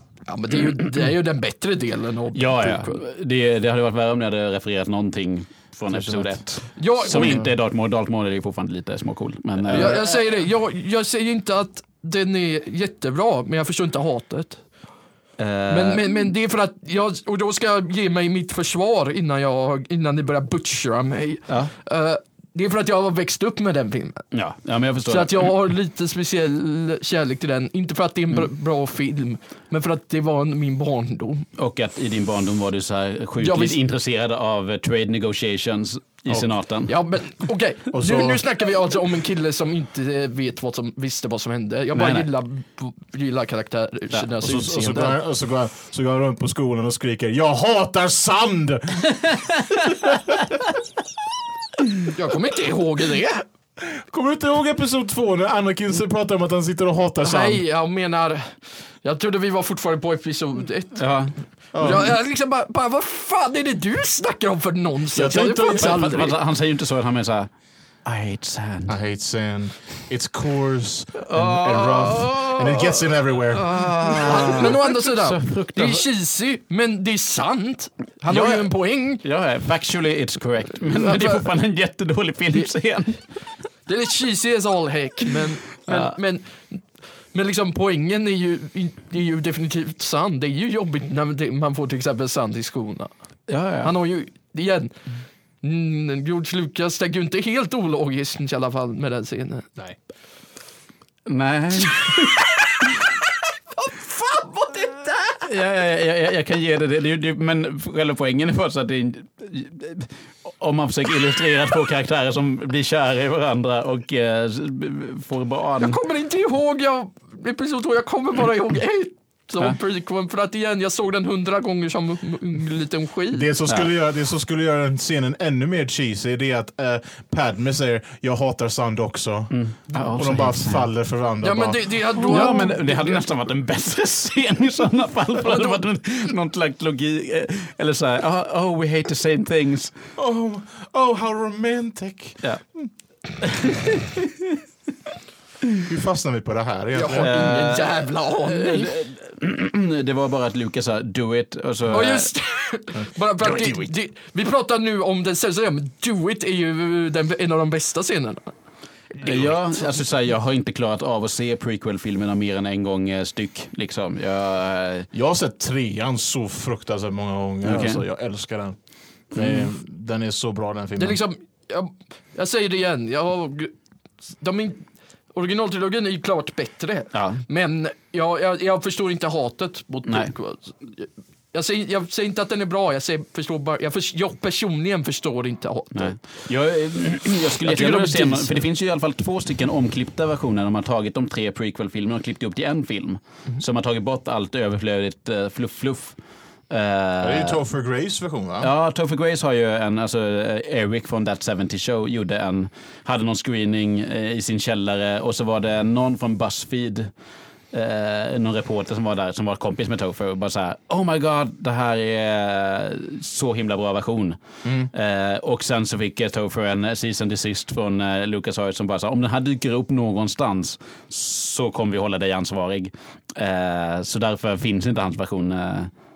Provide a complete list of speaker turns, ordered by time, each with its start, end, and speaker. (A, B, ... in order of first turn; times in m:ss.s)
0:00.3-0:03.0 A
0:02.3-0:10.0 B
0:05.9-0:06.4 C
0:06.8-0:07.5 A
0:07.1-0:07.5 C
0:09.7-0:14.6 A
0:15.4-0:16.1 B
0:15.7-0:24.2 A
0:24.3-0:25.5 B
0:25.0-0:31.4 A
0:31.6-0:36.9 B
0:33.4-0:33.8 A
0:36.9-0:45.2 A
0:37.9-0:38.4 C
0:41.9-0:42.3 B
0:44.4-0:50.4 C
0:52.1-0:53.4 A
0:53.8-0:57.6 C
0:57.2-1:01.0 A
1:01.0-1:01.3 B
1:01.7-1:02.1 C
1:01.8-1:06.4 A
1:05.1-1:06.0 C
1:05.6-1:07.5 B
1:08.0-1:09.0 B
1:08.9-1:14.7 C
1:11.2-1:16.0 B
1:14.0-1:19.2 A
1:18.3-1:23.2 B
1:20.9-1:21.4 A
1:23.9-1:26.8 A
1:25.9-1:26.1 B
1:27.3-1:33.1 A
1:33.5-1:33.9 B
1:33.8-1:34.9 A
1:35.6-1:39.7 A
1:41.2-1:42.9 B
1:43.8-1:45.5 A
1:45.4-1:56.0 B
1:55.8-2:03.5 A
2:03.3-2:12.4 C
2:09.5-2:10.9 B
2:11.4-2:13.2 A
2:12.2-2:19.9 B
2:15.5-2:15.8 A
2:20.2-2:22.9 C
2:23.4-2:24.6 B
2:25.8-2:27.4 C
2:26.9-2:28.9 A
2:27.2-2:32.3 B
2:31.9-2:38.5 A
2:33.4-2:33.9 C
2:39.2-2:45.1 B
2:39.2-2:39.5 A
2:45.1-2:48.8 C
2:47.6-2:48.0 B
2:49.3-2:51.2 C
2:49.3-2:49.7 B
2:51.0-2:53.7 A
2:54.4-3:06.2 A
2:57.1-2:57.4 B
3:05.9-3:16.2 B
3:07.6-3:08.6 A
3:16.7-3:17.6 B
3:17.2-3:18.7 C
3:18.6-3:27.1 B
3:27.7-3:34.4 B
3:34.9-3:45.9 B